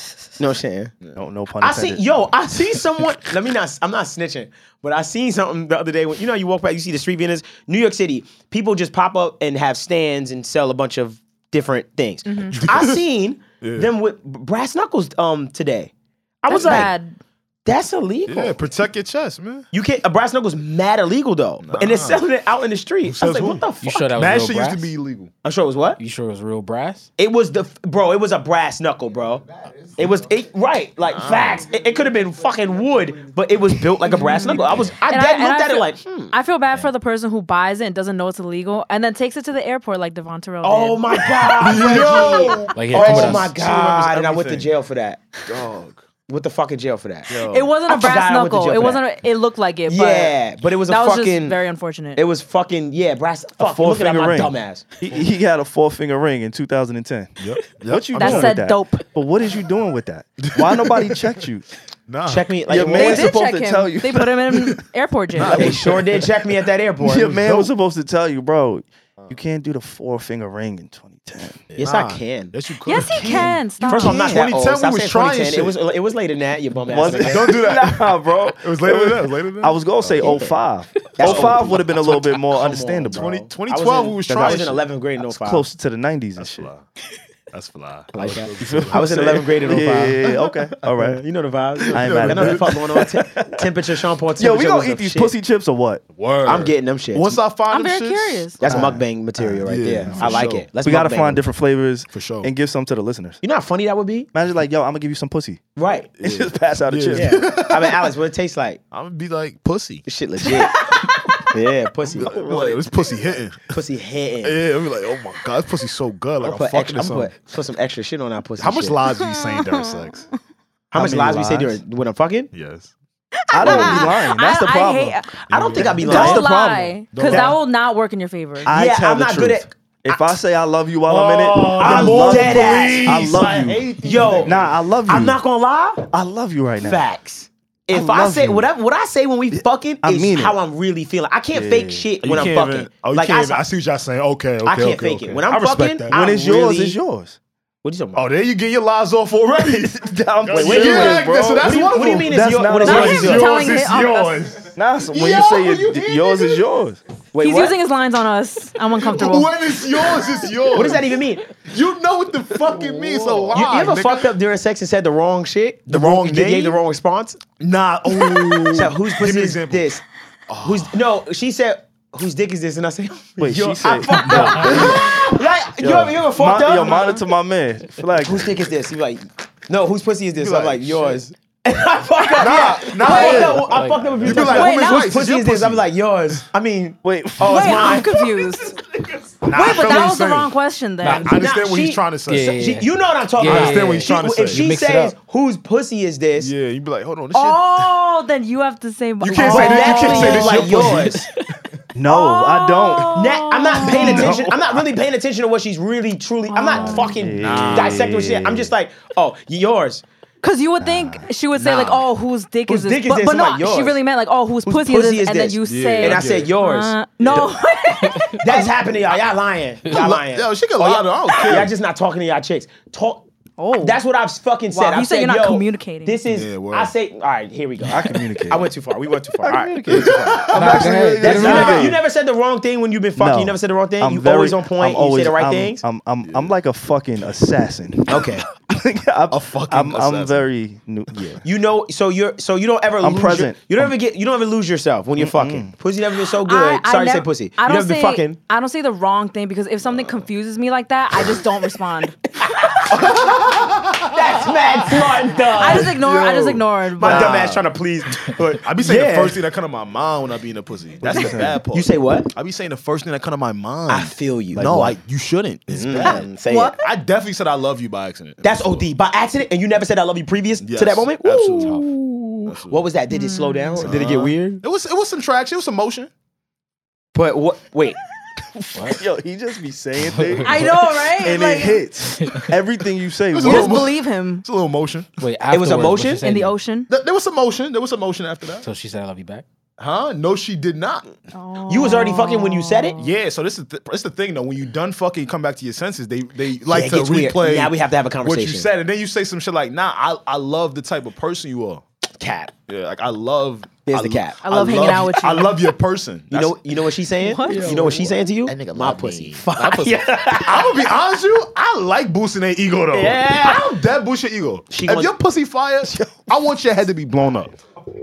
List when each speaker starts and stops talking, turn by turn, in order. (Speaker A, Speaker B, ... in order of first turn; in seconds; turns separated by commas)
Speaker A: 0.4-0.9, Speaker B: 1.2-2.2, Speaker A: 1.6-15.9, Speaker C: 12.3-12.6, Speaker D: 12.5-13.0, Speaker D: 13.6-13.9, Speaker A: 16.4-16.9, Speaker C: 16.5-17.2, Speaker D: 16.5-16.9, Speaker A: 17.6-18.6, Speaker D: 18.3-19.7, Speaker A: 19.7-24.1, Speaker D: 21.6-22.3, Speaker D: 23.1-25.3, Speaker E: 23.8-24.9, Speaker A: 25.4-26.0, Speaker E: 26.0-27.1, Speaker A: 27.2-36.3, Speaker D: 31.1-31.7, Speaker D: 34.0-34.9, Speaker C: 34.2-41.1, Speaker A: 40.6-45.2, Speaker D: 41.4-44.7, Speaker E: 42.7-43.6, Speaker D: 45.5-46.0, Speaker A: 46.3-47.4, Speaker D: 47.3-47.7, Speaker C: 47.4-50.4, Speaker A: 47.9-49.0, Speaker A: 49.9-51.6, Speaker C: 50.9-52.2, Speaker A: 52.2-55.0, Speaker B: 53.6-61.6, Speaker D: 57.4-58.6, Speaker C: 58.2-59.0, Speaker D: 60.4-61.3, Speaker D: 62.1-62.5, Speaker A: 62.3-63.3, Speaker B: 62.7-64.3, Speaker C: 62.9-65.8, Speaker D: 65.3-67.7, Speaker A: 65.5-67.3, Speaker B: 67.0-71.6, Speaker D: 71.7-75.8, Speaker A: 71.8-72.5, Speaker C: 72.9-74.4, Speaker A: 73.2-77.6, Speaker D: 76.9-80.3, Speaker B: 76.9-83.3, Speaker A: 80.2-80.6, Speaker A: 81.2-85.6, Speaker D: 81.2-84.8, Speaker B: 84.3-84.7, Speaker B: 85.2-86.7, Speaker D: 86.4-86.8, Speaker D: 87.5-89.4, Speaker A: 88.1-95.3, Speaker B: 88.6-91.2, Speaker D: 91.9-93.1, Speaker B: 91.9-93.6, Speaker B: 94.4-96.0, Speaker D: 96.1-99.0, Speaker A: 96.5-97.4, Speaker C: 97.7-98.6, Speaker A: 98.6-101.4, Speaker B: 98.7-103.4, Speaker D: 99.7-100.7, Speaker D: 102.1-102.5, Speaker A: 103.4-104.3, Speaker B: 104.3-105.6, Speaker A: 105.8-106.1, Speaker D: 106.2-108.1, Speaker B: 106.2-107.4, Speaker A: 107.1-108.8, Speaker D: 108.9-110.0, Speaker A: 110.1-112.9, Speaker C: 110.7-111.1, Speaker D: 112.1-113.7, Speaker A: 113.7-114.6, Speaker D: 114.4-117.3, Speaker A: 116.4-119.0, Speaker D: 118.6-120.2, Speaker C: 119.1-120.2, Speaker A: 120.9-122.5, Speaker B: 120.9-121.8, Speaker D: 122.5-122.9, Speaker C: 123.4-128.7, Speaker B: 123.5-125.2, Speaker D: 123.6-124.1, Speaker A: 125.5-126.5, Speaker D: 125.5-126.4, Speaker B: 126.0-127.5, Speaker D: 127.1-127.5, Speaker B: 128.7-135.4, Speaker A: 128.7-130.4, Speaker D: 131.1-134.7, Speaker A: 131.8-136.1, Speaker B: 136.1-137.0, Speaker A: 136.8-143.6, Speaker B: 137.9-138.7, Speaker B: 139.5-140.6, Speaker B: 141.5-142.1, Speaker D: 142.2-146.2, Speaker A: 144.6-147.0, Speaker B: 146.1-147.4, Speaker A: 147.8-148.3, Speaker D: 148.1-156.6, Speaker B: 149.6-153.4, Speaker A: 150.5-154.1, Speaker C: 152.8-154.4, Speaker B: 154.8-157.0, Speaker A: 157.3-157.8, Speaker C: 157.4-160.3, Speaker D: 159.0-164.3, Speaker A: 160.7-161.5, Speaker A: 163.5-167.4, Speaker D: 165.9-166.8, Speaker D: 167.6-169.9, Speaker A: 168.7-170.0, Speaker D: 170.5-171.0, Speaker A: 170.7-177.1, Speaker B: 173.4-175.1, Speaker D: 174.2-175.1, Speaker B: 175.8-178.7, Speaker C: 176.8-177.2, Speaker A: 178.2-188.1, Speaker D: 180.4-181.3, Speaker C: 182.2-183.5, Speaker D: 182.4-185.9, Speaker E: 183.4-184.5, Speaker C: 184.4-185.2, Speaker B: 187.0-188.2, Speaker C: 187.4-188.7, Speaker D: 189.4-192.6, Speaker C: 189.5-191.4, Speaker A: 191.0-192.0, Speaker E: 192.3-195.2, Speaker A: 192.6-196.5, Speaker D: 193.4-194.7, Speaker D: 196.4-198.0, Speaker C: 197.3-201.2, Speaker D: 199.2-201.3, Speaker A: 199.3-201.3, Speaker B: 201.9-204.8, Speaker C: 202.1-204.4, Speaker A: 203.1-210.0, Speaker D: 203.9-204.6, Speaker C: 206.5-207.2, Speaker B: 206.7-208.7, Speaker D: 207.4-208.4, Speaker C: 210.4-218.7, Speaker B: 210.8-211.3, Speaker D: 211.6-212.0, Speaker A: 212.7-214.0, Speaker A: 214.7-217.5, Speaker D: 215.7-216.5, Speaker D: 217.2-217.5, Speaker A: 218.4-223.3, Speaker D: 219.9-221.7, Speaker C: 223.6-224.0, Speaker A: 223.8-235.8, Speaker C: 224.7-226.2, Speaker D: 226.3-226.9, Speaker B: 227.8-228.7, Speaker B: 229.4-232.0, Speaker D: 229.9-232.0, Speaker E: 230.5-231.9, Speaker B: 233.2-241.4, Speaker D: 236.2-236.5, Speaker A: 238.1-238.4, Speaker D: 239.3-240.4, Speaker D: 241.1-241.4, Speaker A: 241.4-248.4, Speaker B: 243.0-243.9, Speaker B: 245.2-245.7, Speaker C: 246.4-252.9, Speaker D: 249.9-250.2, Speaker A: 252.9-256.0, Speaker D: 252.9-257.7, Speaker C: 255.6-257.4, Speaker A: 257.0-259.4, Speaker D: 258.6-268.9, Speaker A: 261.0-262.3, Speaker B: 261.1-261.6, Speaker A: 263.9-265.0, Speaker A: 265.7-266.8, Speaker C: 266.1-266.8, Speaker A: 268.4-274.6, Speaker D: 270.6-271.8, Speaker D: 272.5-272.9, Speaker C: 273.1-273.9, Speaker D: 273.8-276.1, Speaker A: 277.1-278.0, Speaker E: 278.8-279.0, Speaker B: 278.9-283.9, Speaker E: 280.1-280.4, Speaker C: 280.4-281.8, Speaker E: 282.2-282.5, Speaker D: 283.3-285.1, Speaker C: 283.4-284.4, Speaker E: 285.2-286.5, Speaker A: 285.5-286.2, Speaker C: 286.2-286.9, Speaker D: 286.9-288.7, Speaker E: 288.6-289.5, Speaker D: 289.8-291.1, Speaker C: 291.3-293.1, Speaker A: 291.7-293.0, Speaker D: 293.0-301.9, Speaker A: 296.7-298.7, Speaker A: 302.2-302.5, Speaker D: 302.7-306.8, Speaker A: 303.9-305.1, Speaker C: 304.4-305.7, Speaker A: 306.3-310.9, Speaker C: 307.2-307.8, Speaker D: 307.4-317.6, Speaker A: 312.9-313.8, Speaker A: 314.7-315.1, Speaker B: 315.9-316.3